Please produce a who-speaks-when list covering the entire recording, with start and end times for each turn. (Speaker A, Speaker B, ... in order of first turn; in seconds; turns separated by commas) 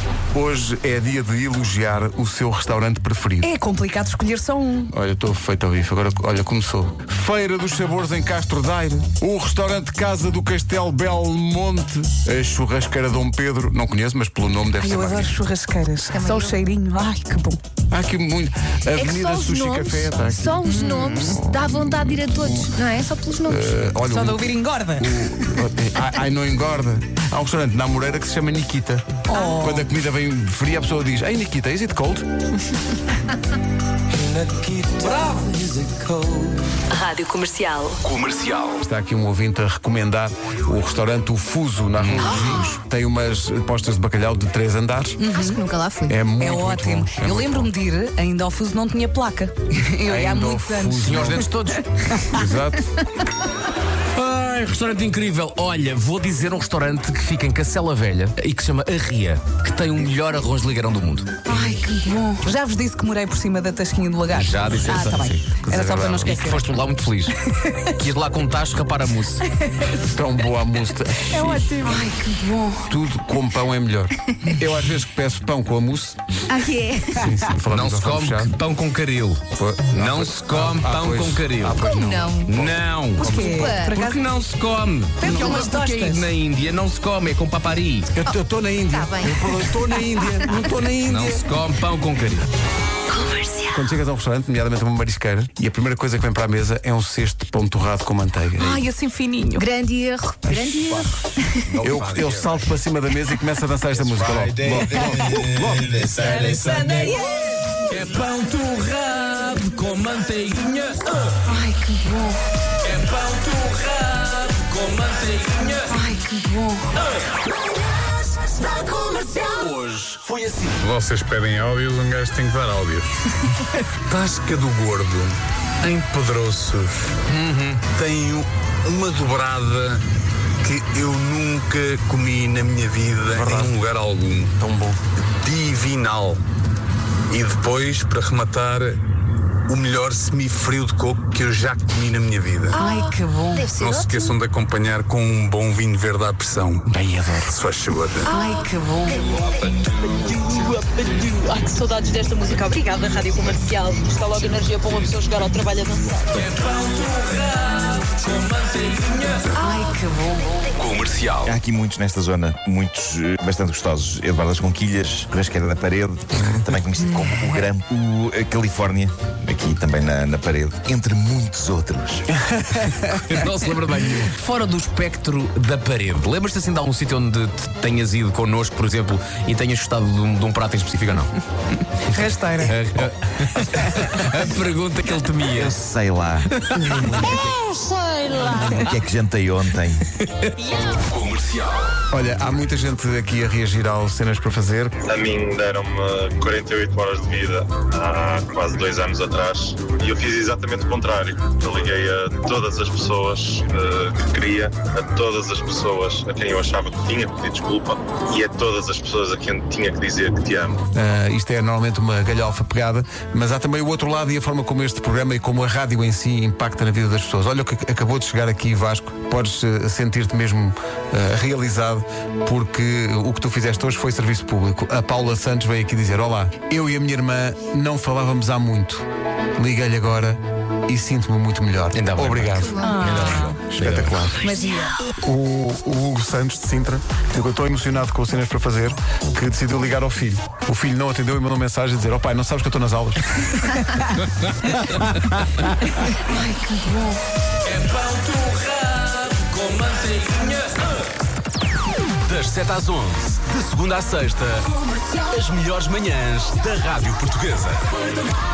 Speaker A: 0.3-3.5, Speaker B: 3.4-4.9, Speaker A: 4.9-15.4, Speaker B: 14.8-17.6, Speaker C: 16.1-16.6, Speaker A: 17.9-20.6, Speaker C: 18.9-23.7, Speaker B: 20.6-21.4, Speaker A: 21.1-22.7, Speaker A: 23.4-32.3, Speaker B: 24.0-25.6, Speaker B: 29.3-29.9, Speaker D: 34.2-36.4, Speaker A: 38.8-45.2, Speaker D: 42.0-42.6, Speaker B: 45.2-45.6, Speaker C: 45.3-46.2, Speaker A: 46.1-47.7, Speaker B: 46.4-51.6, Speaker A: 50.0-51.5, Speaker D: 51.0-51.8, Speaker A: 52.3-52.9, Speaker D: 54.1-61.3, Speaker B: 61.5-66.7, Speaker D: 64.3-69.4, Speaker A: 64.9-66.4, Speaker A: 70.0-71.9, Speaker B: 71.3-72.5, Speaker D: 71.9-72.8, Speaker A: 72.8-76.2, Speaker C: 76.5-77.2, Speaker A: 77.2-78.5, Speaker D: 77.7-81.8, Speaker A: 79.5-83.7, Speaker C: 81.8-82.5, Speaker D: 82.5-88.1, Speaker B: 83.2-84.2, Speaker C: 83.4-84.0, Speaker B: 85.2-86.3, Speaker A: 88.1-91.5, Speaker C: 88.9-89.6, Speaker D: 91.0-92.5, Speaker A: 93.7-98.8, Speaker B: 98.6-99.7, Speaker C: 99.6-101.1, Speaker D: 100.5-102.7, Speaker A: 101.8-105.9, Speaker D: 103.9-107.3, Speaker D: 107.9-112.0, Speaker D: 112.8-116.4, Speaker D: 118.5-120.8, Speaker E: 120.8-123.1, Speaker E: 124.1-127.0, Speaker D: 127.3-127.8, Speaker E: 127.8-130.0, Speaker E: 130.6-134.5, Speaker A: 133.3-133.8, Speaker A: 134.6-135.0, Speaker E: 135.4-136.4, Speaker E: 137.3-139.0, Speaker E: 139.7-142.8, Speaker C: 142.7-144.4, Speaker D: 142.7-143.7, Speaker E: 143.8-148.3, Speaker D: 146.9-147.4, Speaker D: 148.2-149.4, Speaker F: 149.3-156.4, Speaker D: 156.4-160.0, Speaker D: 160.8-161.4, Speaker G: 161.4-172.3, Speaker A: 172.4-173.4, Speaker D: 172.8-181.3, Speaker D: 182.1-185.8, Speaker B: 182.1-182.8, Speaker G: 185.6-187.4, Speaker D: 186.5-187.4, Speaker G: 188.4-190.0, Speaker F: 190.6-191.0, Speaker D: 191.1-191.8, Speaker A: 192.1-194.9, Speaker H: 195.1-210.8, Speaker A: 210.9-234.6, Speaker D: 231.9-234.4, Speaker C: 232.7-233.0, Speaker B: 232.8-233.5, Speaker B: 234.4-235.0, Speaker A: 235.2-243.8, Speaker D: 247.7-250.8, Speaker D: 252.2-257.9